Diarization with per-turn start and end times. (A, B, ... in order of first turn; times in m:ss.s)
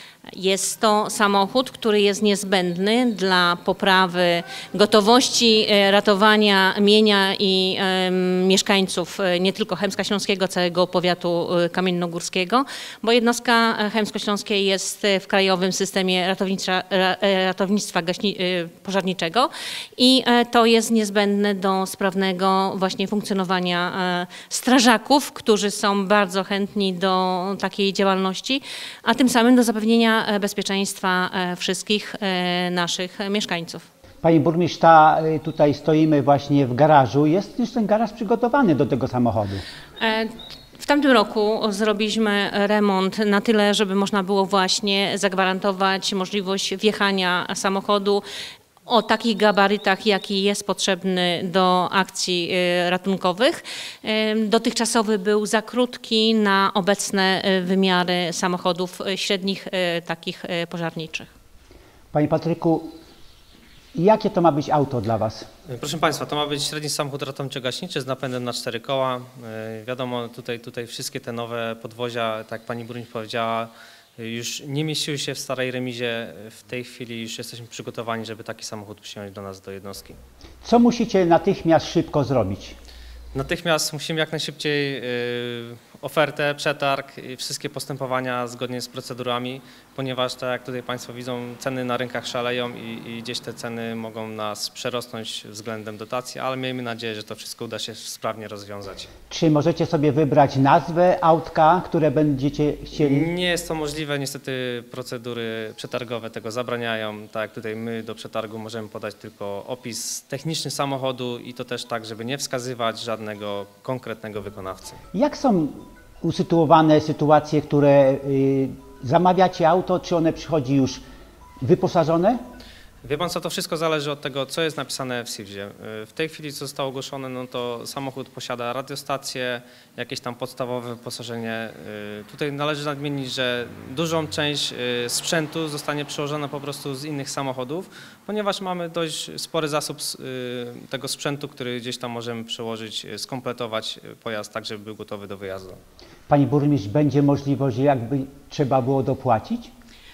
0:00.3-0:33.9 A
0:34.2-0:39.6 B
0:40.0-0:48.2 A
0:48.9-1:01.3 A
1:02.1-1:02.9 B
1:04.0-1:05.5 B
1:05.7-1:20.2 C
1:20.6-1:22.8 B
1:23.3-1:39.1 C
1:39.3-1:43.3 B
1:43.0-1:55.0 C
1:55.1-2:01.0 B
2:01.6-2:02.4 B
2:03.0-2:25.8 C
2:26.3-2:29.7 B